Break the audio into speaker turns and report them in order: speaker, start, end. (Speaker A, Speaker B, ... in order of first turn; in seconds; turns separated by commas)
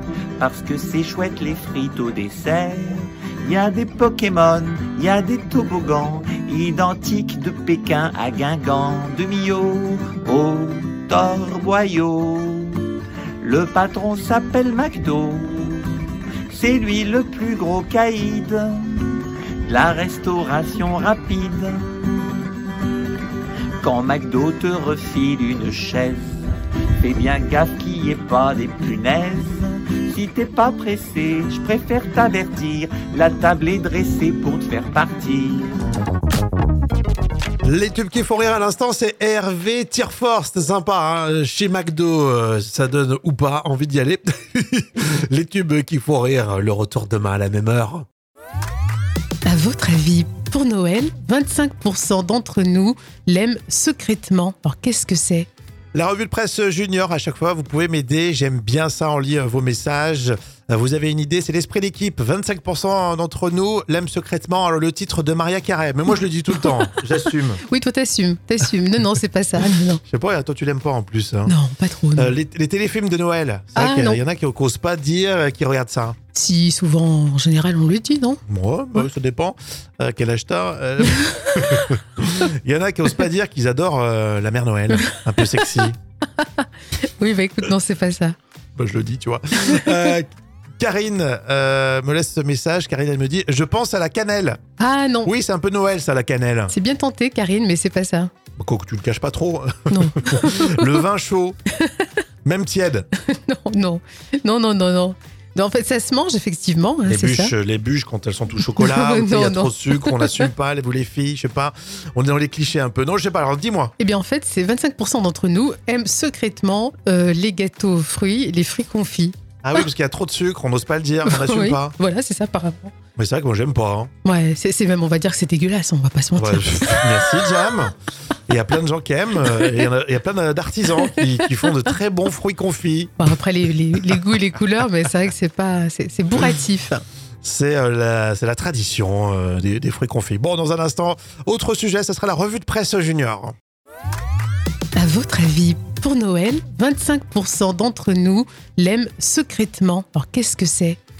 Speaker A: 0.4-12.8, Speaker A: 13.4-15.8, Speaker A: 16.5-21.9, Speaker A: 23.8-26.4, Speaker A: 27.0-35.7, Speaker B: 37.6-48.0, Speaker C: 49.4-55.5, Speaker B: 55.9-67.6, Speaker C: 67.6-70.0, Speaker B: 70.1-71.5, Speaker C: 71.5-72.3, Speaker B: 72.2-76.2, Speaker C: 73.8-74.2, Speaker C: 76.3-78.4, Speaker B: 78.5-86.0, Speaker C: 81.2-81.9, Speaker C: 85.0-85.6, Speaker C: 87.0-88.3, Speaker B: 88.8-90.3, Speaker C: 89.7-90.1, Speaker B: 90.8-94.6, Speaker C: 94.8-95.3, Speaker B: 95.2-96.7, Speaker C: 96.7-98.3, Speaker B: 98.6-101.6, Speaker C: 99.9-101.0, Speaker C: 101.8-102.0, Speaker B: 102.4-103.1, Speaker C: 103.2-107.5, Speaker B: 107.1-113.9, Speaker C: 108.7-110.5, Speaker C: 114.0-119.3, Speaker B: 119.6-121.9, Speaker C: 121.3-122.9, Speaker B: 123.2-124.1, Speaker C: 124.2-127.5, Speaker B: 126.3-127.9, Speaker B: 128.5-133.3, Speaker C: 129.4-129.8, Speaker C: 131.0-131.7, Speaker C: 133.2-137.0, Speaker B: 137.4-143.5, Speaker C: 144.9-151.0